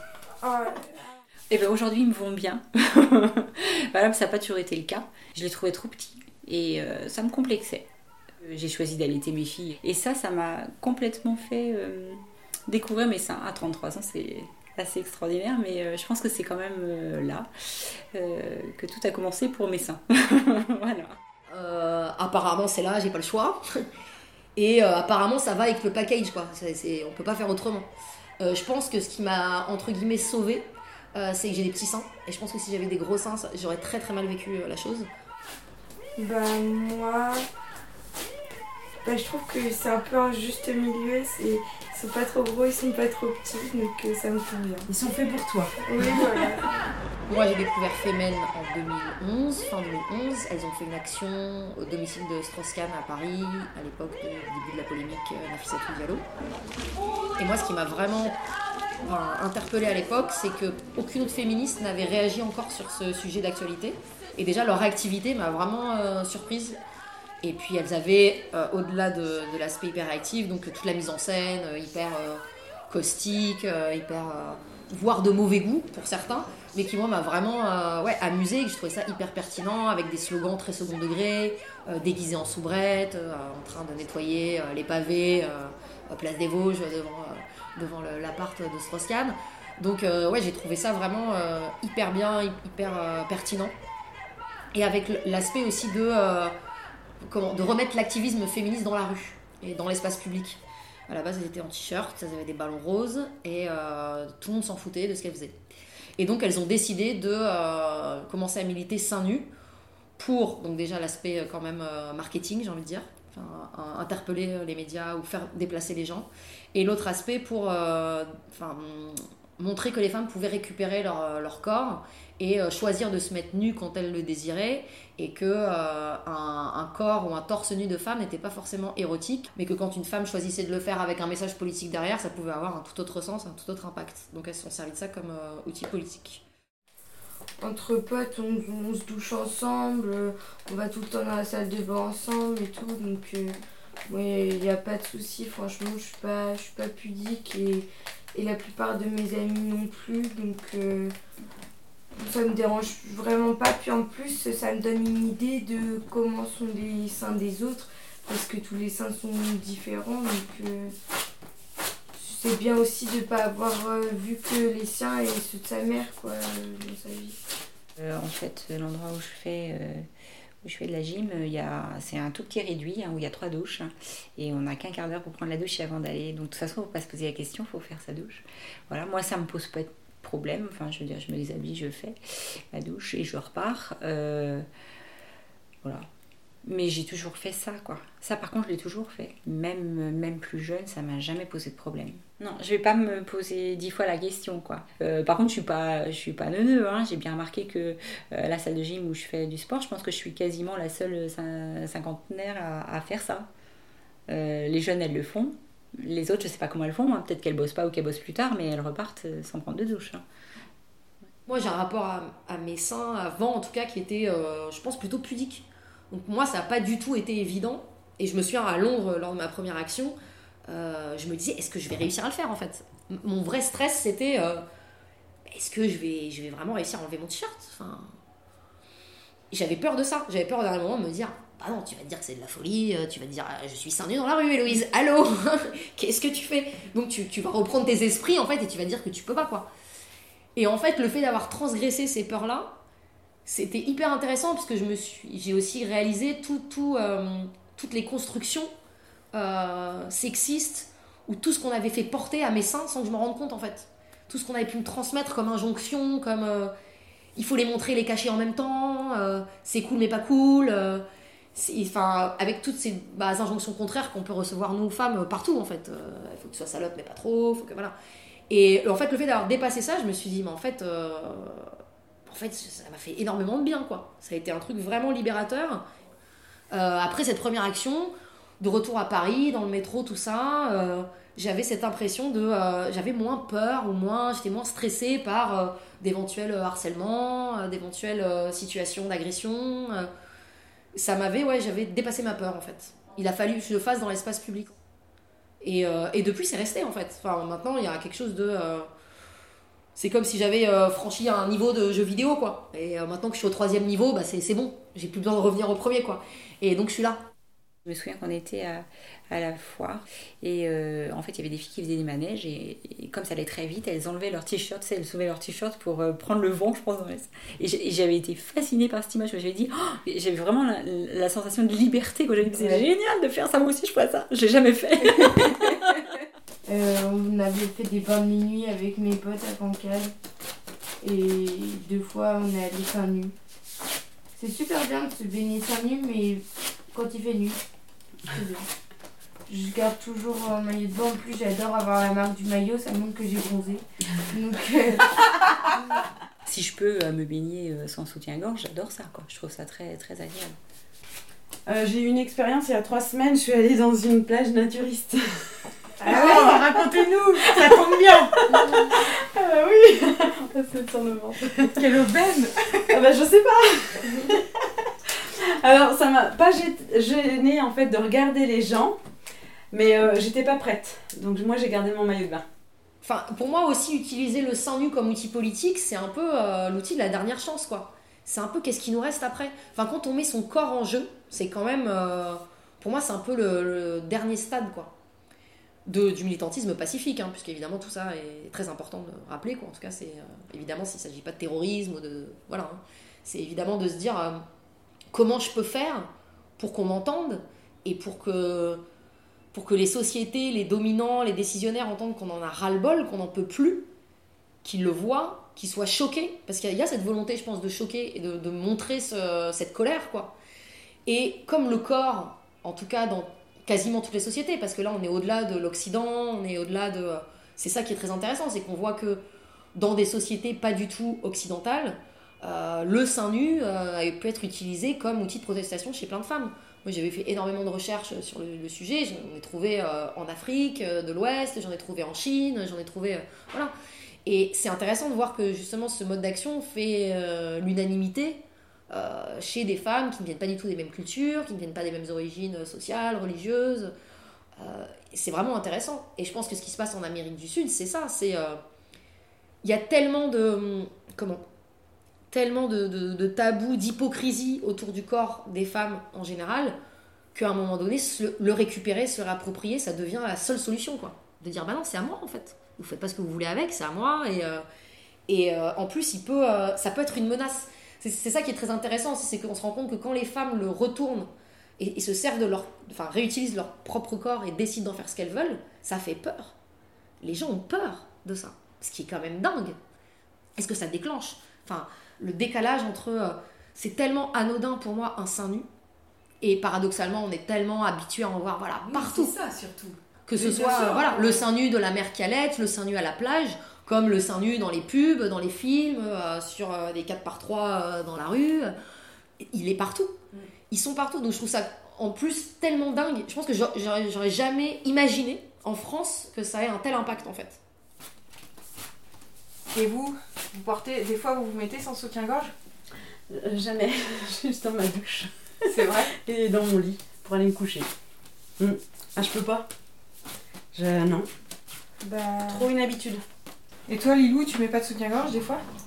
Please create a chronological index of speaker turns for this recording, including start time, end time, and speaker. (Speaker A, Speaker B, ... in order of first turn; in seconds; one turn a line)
Speaker A: 0.4-1.1
Speaker B: 1.5-7.9
Speaker B: 8.4-17.5
Speaker B: 18.1-21.1
Speaker C: 21.5-23.6
Speaker C: 24.6-35.1
Speaker A: 36.2-37.4
Speaker A: 39.0-44.9
Speaker D: 44.9-46.5
Speaker A: 45.8-46.8
Speaker C: 47.3-56.2
Speaker C: 57.4-58.4
Speaker C: 59.0-66.8
Speaker C: 67.4-93.8
Speaker C: 94.7-96.5
Speaker C: 97.2-105.6
Speaker C: 106.2-109.5
Speaker C: 110.2-136.4
Speaker A: 137.6-143.6
Speaker A: 144.1-151.1
Speaker A: 152.2-160.9
Speaker A: 162.2-167.4
Speaker B: 168.0-170.1
Speaker B: 170.6-182.2
Speaker B: 182.7-184.7
Speaker B: 186.7-203.5
Speaker B: 204.3-210.2
Speaker C: 211.5-220.2
Speaker C: 220.7-224.6
Speaker C: 225.5-228.1
Speaker C: 229.5-239.7
Speaker C: 240.6-242.7
Speaker C: 243.5-248.7
Speaker C: 249.3-256.7
Speaker C: 257.4-267.9
Speaker C: 268.5-271.7
Speaker C: 272.3-275.8
Speaker C: 276.7-290.1
Speaker C: 290.9-294.7
Speaker C: 295.6-298.9
Speaker C: 299.9-307.2
Speaker B: 307.9-326.2
Speaker A: 322.6-322.8
Speaker A: 326.7-330.1
Speaker A: 331.0-333.3
Speaker A: 334.4-337.6
Speaker A: 338.3-338.7
Speaker A: 339.5-345.4
Speaker B: 346.4-350.6
Speaker D: 351.7-355.2
Speaker D: 356.0-362.1
Speaker E: 356.1-357.7
Speaker E: 362.0-362.4
Speaker D: 362.8-369.0
Speaker D: 369.7-372.4
Speaker C: 373.0-384.9
Speaker C: 385.9-394.4
Speaker C: 395.1-398.8
Speaker C: 399.5-403.9
Speaker C: 404.6-410.4
Speaker C: 411.1-419.2
Speaker C: 419.8-433.7
Speaker C: 434.2-443.9
Speaker C: 444.6-448.6
Speaker C: 449.6-451.4
Speaker C: 452.3-456.8
Speaker C: 457.3-464.6
Speaker C: 465.3-471.3
Speaker C: 471.8-476.6
Speaker C: 477.2-479.8
Speaker C: 480.6-485.7
Speaker C: 486.4-489.4
Speaker E: 488.9-491.4
Speaker C: 490.3-498.7
Speaker C: 499.5-500.1
Speaker C: 500.7-507.6
Speaker E: 509.7-512.5
Speaker D: 513.3-517.9
Speaker E: 515.7-516.1
Speaker D: 518.6-519.7
Speaker D: 520.7-521.3
Speaker A: 522.1-522.3
Speaker D: 522.5-523.2
Speaker E: 523.9-525.6